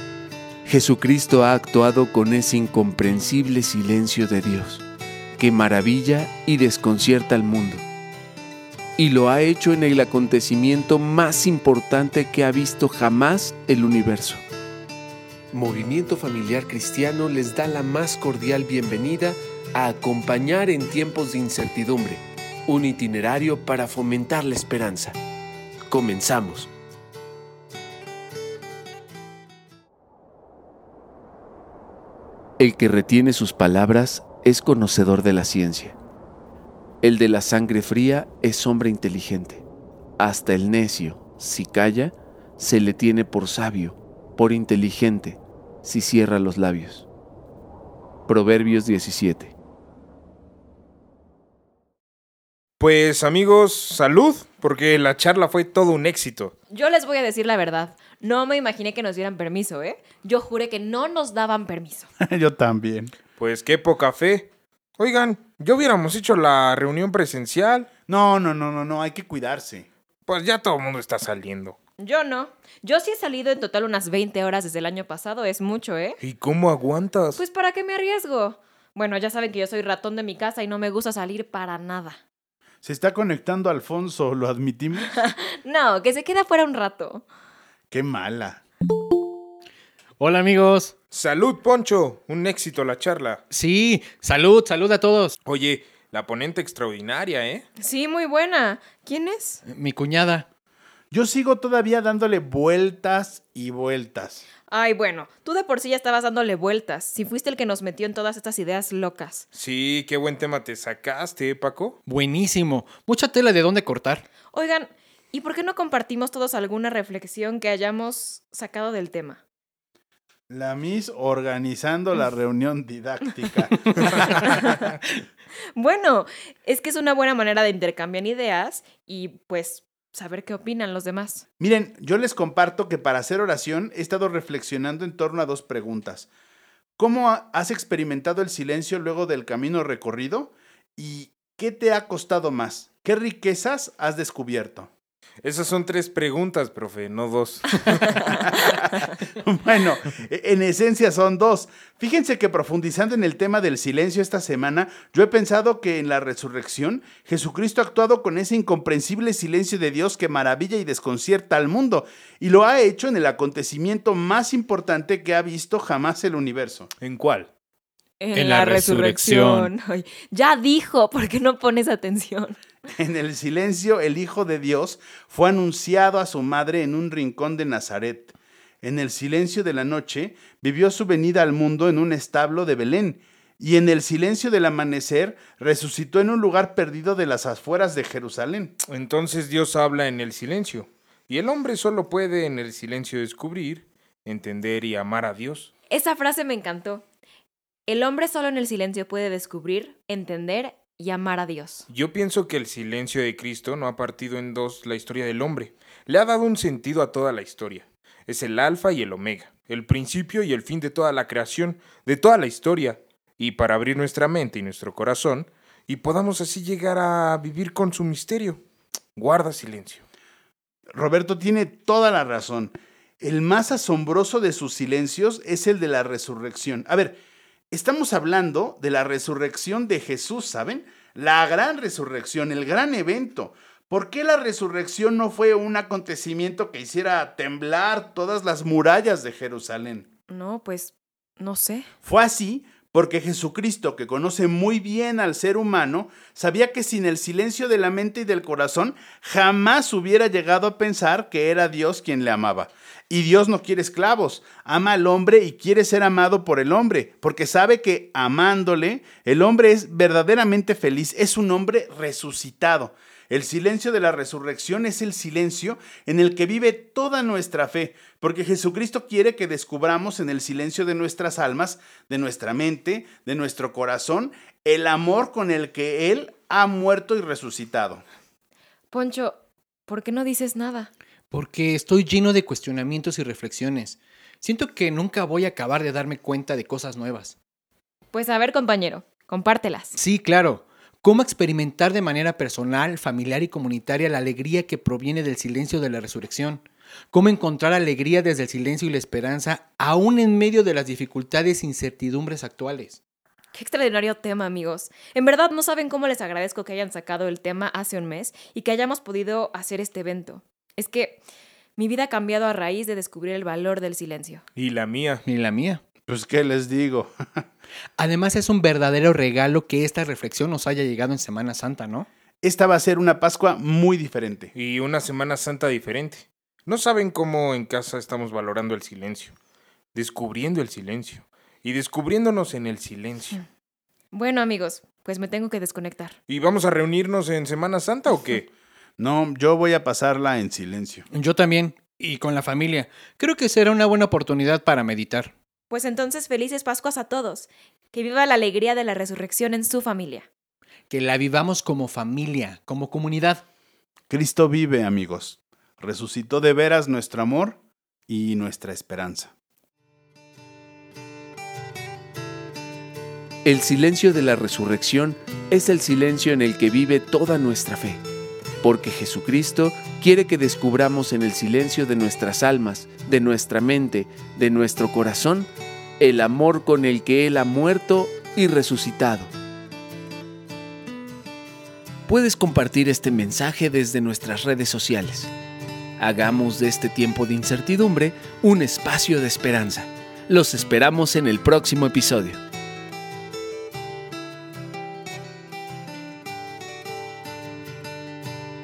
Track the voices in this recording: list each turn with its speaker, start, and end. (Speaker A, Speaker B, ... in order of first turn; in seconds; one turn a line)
Speaker A: 0.7-4.8
Speaker A: 5.4-7.8
Speaker A: 9.0-14.4
Speaker A: 15.5-25.2
Speaker A: 25.9-26.7
Speaker A: 32.6-36.0
Speaker A: 37.0-39.6
Speaker A: 40.2-47.1
Speaker A: 48.3-49.5
Speaker B: 52.8-56.5
Speaker C: 56.7-62.1
Speaker D: 62.2-63.1
Speaker B: 63.4-67.9
Speaker D: 68.1-69.9
Speaker B: 70.3-71.8
Speaker C: 72.0-76.2
Speaker B: 76.2-77.4
Speaker C: 77.4-82.2
Speaker D: 82.8-85.2
Speaker C: 85.0-87.2
Speaker D: 87.9-88.6
Speaker E: 90.2-90.9
Speaker B: 91.1-93.4
Speaker E: 93.5-95.4
Speaker B: 95.4-97.6
Speaker C: 97.8-99.6
Speaker E: 99.7-100.5
Speaker D: 101.1-104.4
Speaker C: 104.7-109.5
Speaker B: 109.5-112.0
Speaker E: 112.0-114.2
Speaker C: 114.5-119.4
Speaker D: 120.5-124.4
Speaker C: 124.3-124.9
Speaker C: 125.7-131.4
Speaker D: 131.6-136.3
Speaker D: 137.0-144.9
Speaker B: 145.4-148.3
Speaker D: 148.3-148.8
Speaker D: 149.4-166.9
Speaker B: 167.0-167.5
Speaker C: 168.2-172.6
Speaker E: 168.3-169.7
Speaker D: 173.0-188.8
Speaker B: 188.9-195.7
Speaker C: 195.9-197.0
Speaker C: 197.9-201.9
Speaker B: 201.9-218.6
Speaker B: 219.2-220.0
Speaker D: 220.9-227.2
Speaker D: 227.7-240.1
Speaker C: 240.3-241.9
Speaker D: 242.0-278.0
Speaker C: 278.9-280.9
Speaker E: 281.3-287.4
Speaker C: 288.1-289.9
Speaker E: 290.0-303.0
Speaker C: 303.5-311.2
Speaker C: 311.8-314.4
Speaker B: 314.6-315.2
Speaker E: 315.2-315.8
Speaker D: 316.0-317.4
Speaker E: 318.0-322.1
Speaker D: 322.4-324.5
Speaker B: 324.5-329.3
Speaker B: 329.9-333.4
Speaker C: 334.1-336.1
Speaker B: 336.3-338.5
Speaker D: 339.0-341.1
Speaker E: 341.1-345.3
Speaker C: 345.7-350.3
Speaker E: 350.9-353.4
Speaker D: 354.1-359.3
Speaker A: 363.4-368.0
Speaker A: 368.6-379.3
Speaker A: 382.1-385.3
Speaker A: 386.0-392.4